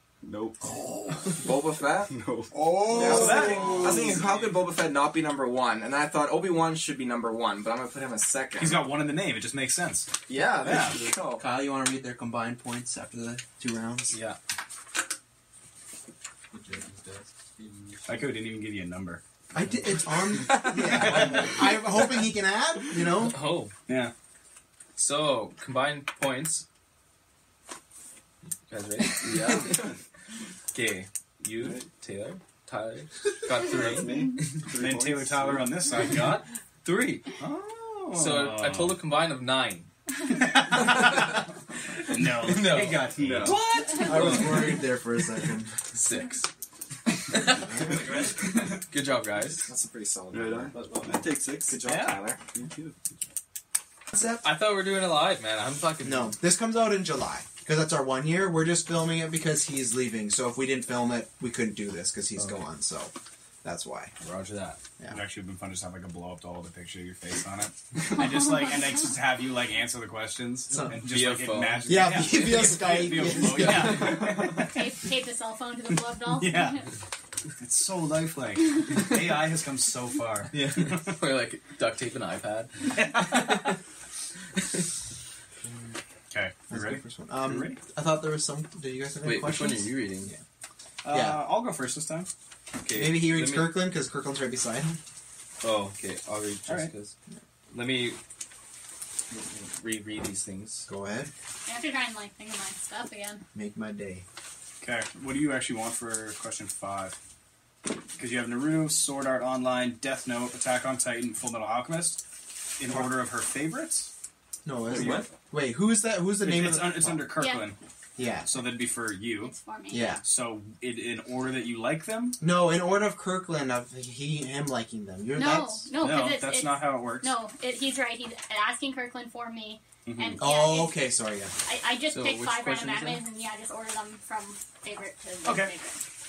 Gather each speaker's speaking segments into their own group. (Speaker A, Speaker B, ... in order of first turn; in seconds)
Speaker A: 0.2-1.1, 2.1-4.0, 29.2-29.9, 31.6-31.9, 33.6-35.9, 43.1-43.6, 50.3-51.8, 52.5-52.9
Speaker B: 1.4-2.2, 2.7-8.9, 10.3-11.4, 49.6-50.8, 51.6-52.4
Speaker C: 2.9-4.2, 8.6-10.1, 10.6-11.0, 18.1-19.2, 20.9-21.6, 23.9-24.1, 34.7-36.4, 37.4-39.0, 40.4-41.3, 42.1-44.5, 47.9-48.3, 51.9-52.2, 65.1-75.0, 75.9-76.8, 77.6-81.1, 82.9-83.7, 86.3-87.8, 91.0-92.3, 104.8-107.2, 108.2-112.2, 112.8-114.1, 116.4-117.8, 118.4-119.5, 120.2-122.4, 126.0-127.3, 130.1-130.4, 135.4-135.7
Speaker D: 11.4-14.1, 19.5-23.4, 44.0-45.7, 47.6-47.9, 54.1-54.4, 56.0-63.1, 63.6-64.1, 71.8-74.1, 86.7-90.4, 91.1-91.5, 92.9-95.0, 100.9-101.3, 103.5-104.2, 114.6-117.3, 118.2-118.5, 119.9-120.2, 122.4-125.9, 130.4-131.5
Speaker E: 14.1-14.4, 23.2-23.7, 25.0-26.6, 28.7-29.7, 30.7-34.1, 35.9-37.3, 38.1-39.9, 42.4-44.7, 45.9-46.5, 47.3-47.7, 48.8-49.7, 54.4-56.4, 64.2-64.8, 71.0-72.0, 73.6-73.9, 80.5-82.7, 89.2-90.3, 92.8-93.8, 95.6-97.1, 97.7-98.2, 99.3-100.9, 132.1-133.2
Speaker F: 74.4-76.9, 101.7-103.4, 117.3-117.7, 119.4-120.2, 125.3-131.0, 131.6-136.0